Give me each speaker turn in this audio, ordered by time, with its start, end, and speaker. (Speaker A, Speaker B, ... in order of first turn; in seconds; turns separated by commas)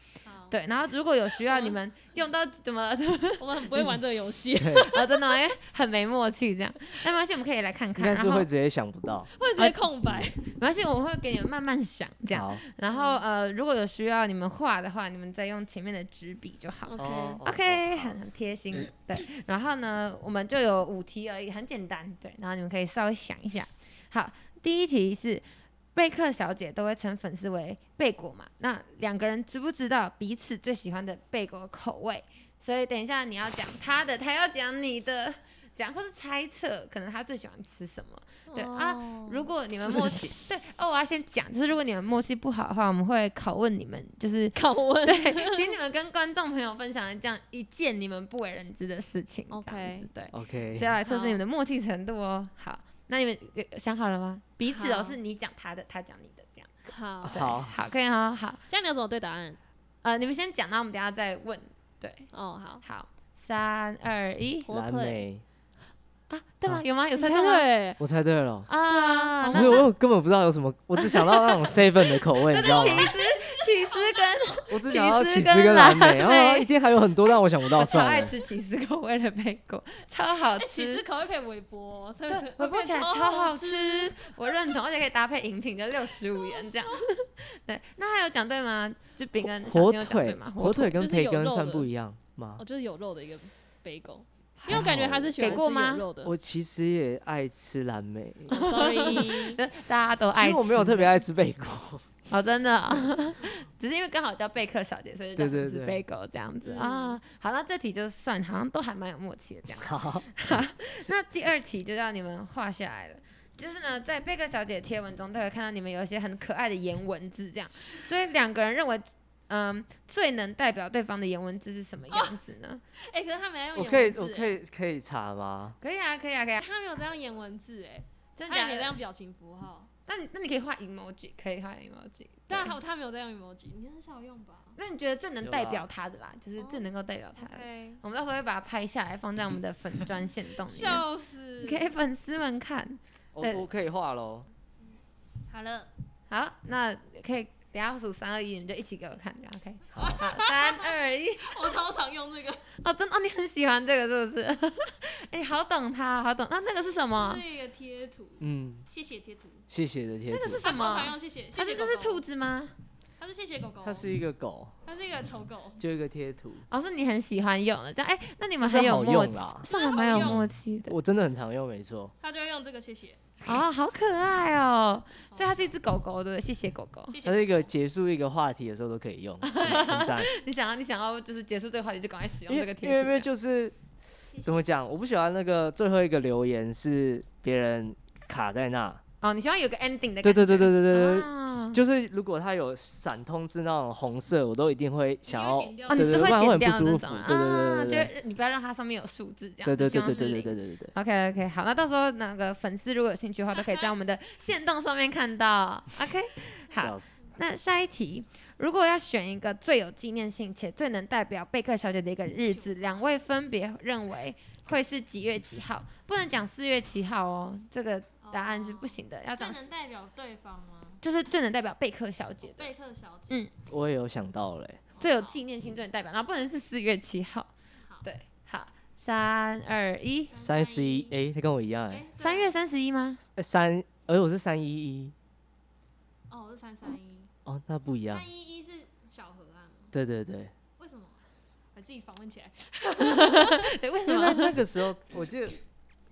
Speaker A: 0.2-0.6, Speaker B: 0.5-4.0, Speaker A: 1.5-1.8, Speaker A: 3.4-5.2, Speaker C: 4.6-4.9, Speaker B: 4.8-8.5, Speaker C: 8.0-9.3, Speaker A: 9.4-10.5, Speaker B: 9.6-9.9, Speaker B: 10.4-56.7, Speaker C: 12.3-12.6, Speaker A: 12.9-13.2, Speaker A: 16.9-17.4, Speaker C: 17.0-18.2, Speaker A: 38.5-39.5, Speaker C: 39.8-40.3, Speaker A: 44.5-45.7, Speaker A: 49.5-50.1, Speaker C: 50.3-50.9, Speaker A: 51.1-51.4, Speaker A: 54.7-55.2, Speaker A: 56.9-57.4, Speaker C: 57.2-57.7, Speaker B: 57.3-58.6, Speaker A: 58.7-59.6, Speaker B: 60.0-62.3, Speaker A: 62.3-62.8, Speaker B: 62.8-64.7, Speaker A: 64.7-65.2, Speaker C: 64.7-65.4, Speaker B: 66.3-67.7, Speaker A: 67.2-68.0, Speaker C: 68.0-68.7, Speaker B: 68.7-69.8, Speaker A: 68.9-69.9, Speaker C: 69.5-73.1, Speaker B: 71.0-71.8, Speaker B: 72.5-76.7, Speaker A: 72.6-74.2, Speaker C: 74.7-78.3, Speaker B: 77.7-81.0, Speaker A: 80.6-84.3, Speaker B: 82.3-91.0, Speaker A: 86.4-86.9, Speaker C: 89.4-92.6, Speaker A: 91.0-91.9, Speaker A: 92.6-96.3, Speaker C: 94.6-95.3, Speaker B: 95.4-96.0, Speaker C: 96.2-98.7, Speaker A: 98.5-99.6, Speaker B: 98.5-101.2, Speaker C: 100.3-102.1, Speaker B: 102.3-122.8, Speaker C: 105.4-106.0, Speaker A: 106.6-107.2, Speaker C: 109.8-110.3, Speaker A: 123.0-124.6, Speaker C: 123.8-125.8, Speaker B: 125.8-126.7, Speaker A: 126.6-129.9, Speaker B: 128.4-129.0, Speaker B: 130.1-132.8, Speaker A: 132.5-134.8, Speaker B: 134.8-141.1, Speaker C: 135.4-135.9, Speaker A: 136.6-136.9, Speaker A: 137.4-138.0, Speaker A: 140.7-141.9, Speaker B: 141.6-143.6, Speaker C: 143.3-144.5, Speaker A: 145.5-145.9, Speaker B: 146.3-151.8, Speaker C: 149.9-150.2, Speaker A: 150.0-152.7, Speaker B: 152.8-157.4, Speaker A: 157.1-159.7, Speaker C: 158.4-158.8, Speaker C: 159.7-160.9, Speaker B: 160.3-162.7, Speaker A: 160.6-162.2, Speaker A: 163.2-164.1, Speaker C: 163.8-164.7, Speaker A: 164.9-165.8, Speaker C: 165.8-166.7, Speaker B: 166.7-171.0, Speaker C: 168.6-172.1, Speaker A: 169.7-170.4, Speaker A: 172.2-173.4, Speaker B: 173.4-177.2, Speaker A: 175.3-175.7, Speaker A: 177.1-177.7, Speaker C: 177.2-180.3, Speaker B: 179.4-183.3, Speaker C: 182.5-183.8, Speaker A: 184.3-184.7, Speaker C: 184.4-189.0, Speaker B: 189.2-191.8, Speaker C: 190.2-198.1, Speaker A: 195.3-196.4, Speaker B: 195.9-219.6, Speaker C: 199.7-200.9, Speaker A: 203.5-203.9, Speaker C: 206.8-207.3, Speaker A: 212.5-212.8, Speaker A: 218.2-221.0, Speaker B: 221.0-222.7, Speaker A: 222.4-223.3, Speaker C: 223.7-224.8, Speaker A: 224.9-225.4, Speaker B: 225.0-227.5, Speaker B: 228.0-230.3, Speaker A: 230.3-231.2, Speaker C: 230.3-232.1, Speaker A: 231.9-232.6, Speaker B: 232.2-233.2, Speaker C: 233.4-235.1, Speaker A: 236.3-237.3, Speaker C: 237.5-238.3, Speaker A: 238.1-239.9, Speaker C: 239.9-240.5, Speaker A: 240.8-241.2, Speaker A: 241.8-243.7, Speaker B: 243.0-244.6, Speaker C: 244.1-245.6